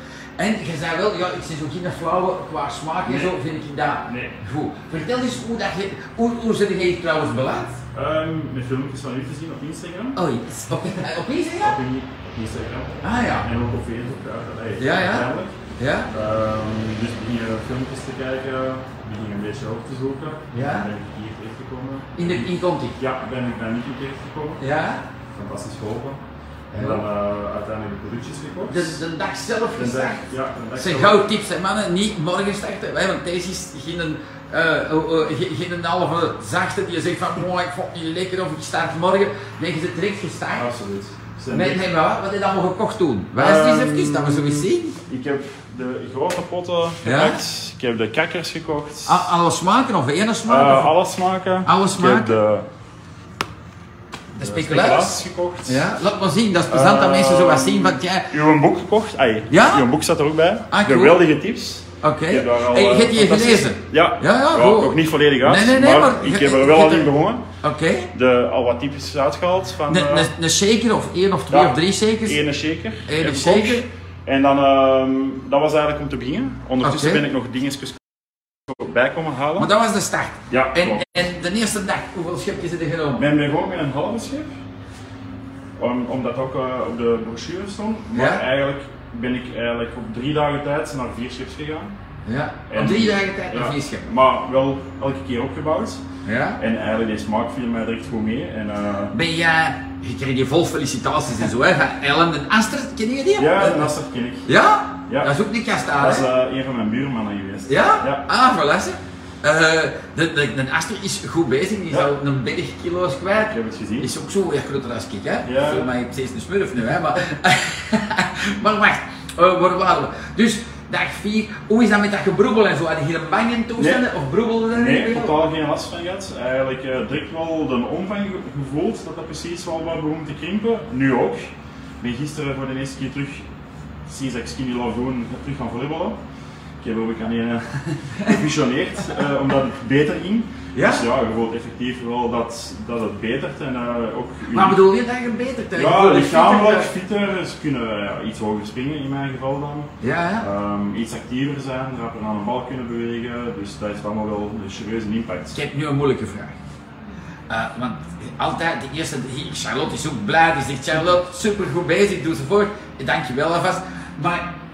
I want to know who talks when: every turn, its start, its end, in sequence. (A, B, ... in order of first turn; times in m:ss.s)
0:00.4-0:07.8 A
0:03.0-0:03.3 B
0:04.0-0:04.4 B
0:07.9-0:10.2 B
0:10.2-0:11.8 A
0:11.6-0:15.5 B
0:13.0-0:13.5 A
0:14.8-0:16.1 A
0:16.1-0:24.6 B
0:20.5-0:20.9 A
0:22.2-0:23.0 A
0:24.6-0:25.0 A
0:25.3-0:26.2 B
0:26.7-0:27.0 A
0:26.7-0:29.0 B
0:28.7-0:40.7 A
0:29.8-0:31.2 B
0:40.6-0:41.8 B
0:41.5-0:45.0 A
0:43.4-0:49.3 B
0:47.0-0:47.4 A
0:49.0-0:50.9 A
0:50.5-0:52.7 B
0:51.6-0:52.4 A
0:54.4-0:58.3 A
0:54.4-0:55.8 B
0:56.7-1:07.4 B
0:59.5-0:59.9 A
1:00.7-1:01.2 A
1:02.0-1:08.1 A
1:08.1-1:10.3 B
1:09.9-1:12.4 A
1:11.5-1:18.1 B
1:13.1-1:13.8 A
1:16.8-1:17.2 A
1:18.6-1:19.7 B
1:19.6-1:23.2 A
1:20.5-1:21.0 B
1:23.2-1:24.5 B
1:25.8-1:31.9 B
1:28.1-1:28.4 A
1:32.2-1:34.1 A
1:32.7-1:36.0 B
1:36.2-1:36.6 A
1:36.6-1:39.1 B
1:39.1-1:43.9 A
1:43.4-1:44.5 B
1:44.4-1:46.2 A
1:46.0-1:48.2 B
1:47.7-2:05.3 A
1:53.4-1:54.1 B
1:55.4-1:55.9 B
2:03.8-2:04.0 B
2:04.7-2:13.5 B
2:14.1-2:16.2 B
2:16.8-2:24.8 B
2:20.7-2:21.0 A
2:24.5-2:26.9 A
2:25.7-2:35.6 B
2:30.0-2:30.4 A
2:35.5-2:36.6 A
2:37.5-2:44.4 A